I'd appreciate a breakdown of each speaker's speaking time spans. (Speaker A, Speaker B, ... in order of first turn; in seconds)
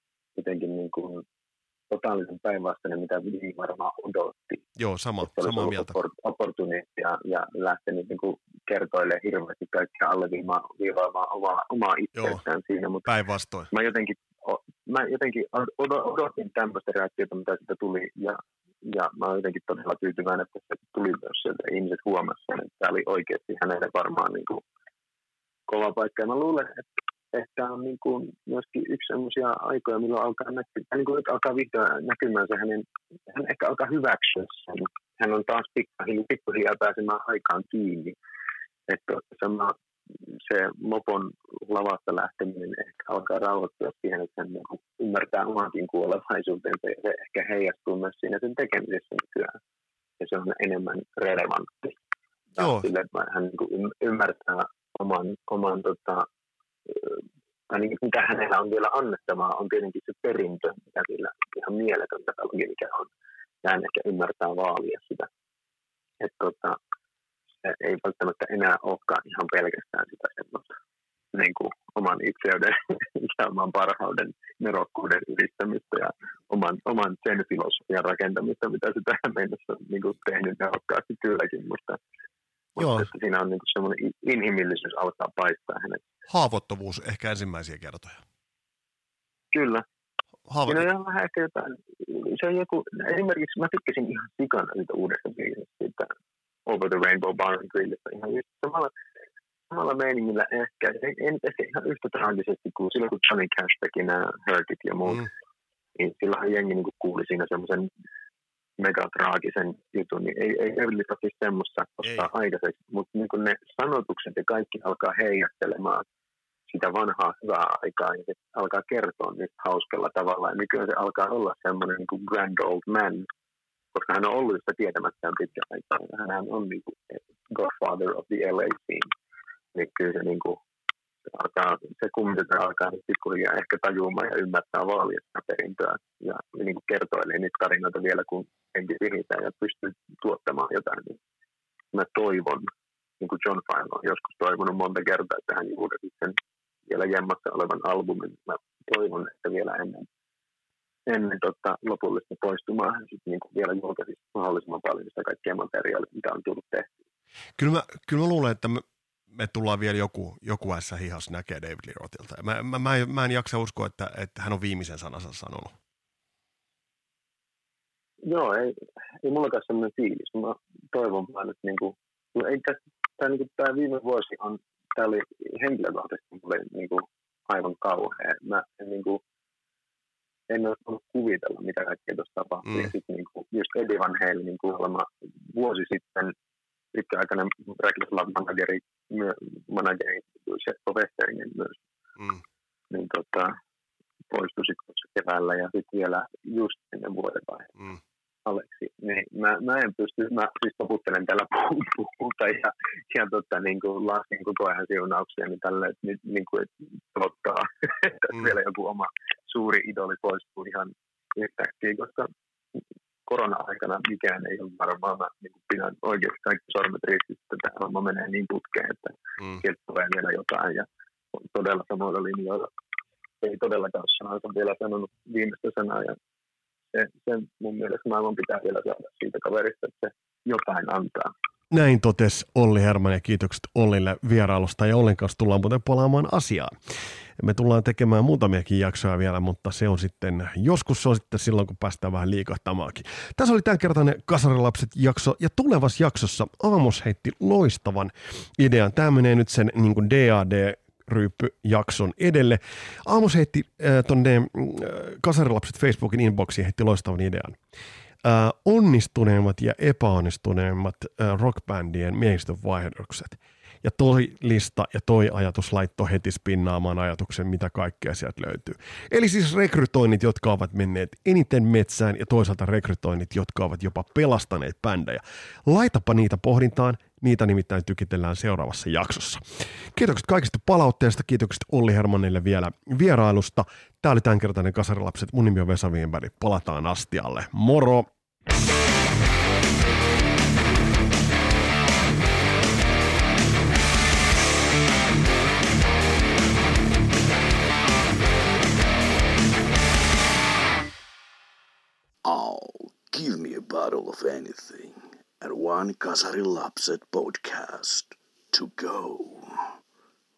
Speaker A: 0.3-1.2, 1.9-4.7, 5.2-13.1, 13.7-24.6, 25.7-38.1, 38.9-39.7, 40.3-49.6, 50.2-52.0, 52.6-56.3, 56.9-63.1, 63.6-65.3, 66.2-66.8, 67.6-70.7, 71.3-82.0, 82.8-86.0, 89.5-89.8, 90.7-96.1, 96.7-98.9, 99.7-105.3, 106.0-107.9, 108.8-116.0, 116.7-123.3, 123.9-129.1, 129.7-130.6, 131.3-141.2, 141.9-142.7, 143.2-146.3, 146.9-150.1, 151.1-156.9, 168.2-179.2, 180.5-186.3, 186.9-191.8, 192.9-193.6, 194.3-197.9, 198.4-222.7, 223.4-226.2, 226.9-231.3
Speaker B: 4.8-6.0, 13.1-13.7, 52.6-52.9, 82.8-83.0, 86.3-88.2, 90.5-90.9, 157.6-165.7, 231.7-236.7, 237.4-257.6, 258.2-288.1
Speaker C: 302.2-309.5